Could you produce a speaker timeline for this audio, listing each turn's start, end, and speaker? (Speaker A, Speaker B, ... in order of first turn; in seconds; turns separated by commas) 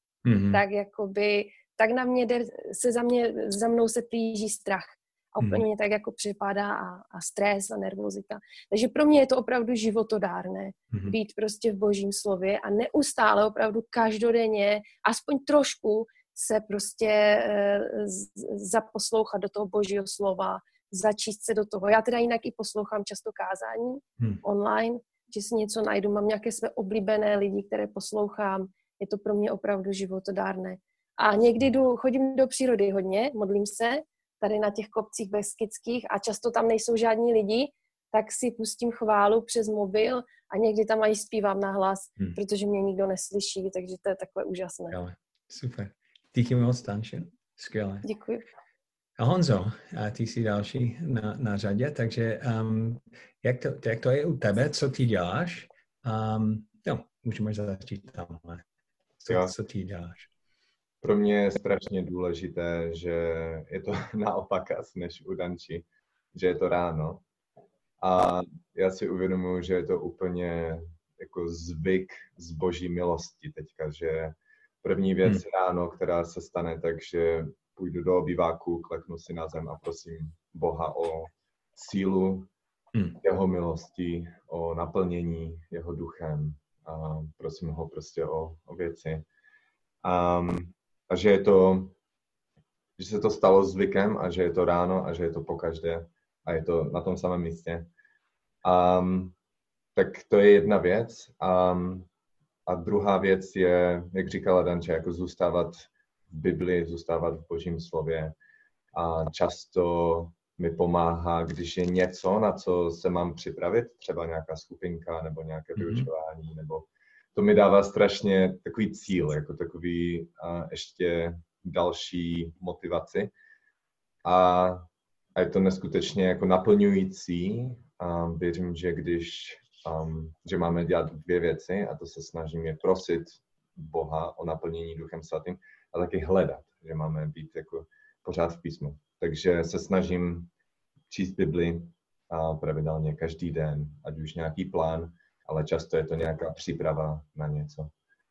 Speaker A: 0.2-0.6, Speaker B: 0.5-45.0, Speaker A: 44.9-48.1, Speaker B: 48.0-48.4, Speaker A: 49.2-58.6, Speaker A: 59.2-60.3, Speaker C: 61.0-67.2, Speaker C: 68.0-82.5, Speaker C: 83.2-89.2, Speaker C: 90.0-92.0, Speaker C: 93.0-97.9, Speaker C: 98.6-99.3, Speaker C: 99.9-102.1, Speaker C: 102.7-108.3, Speaker C: 108.9-123.3, Speaker A: 115.8-116.1, Speaker C: 124.2-140.5, Speaker C: 141.1-147.9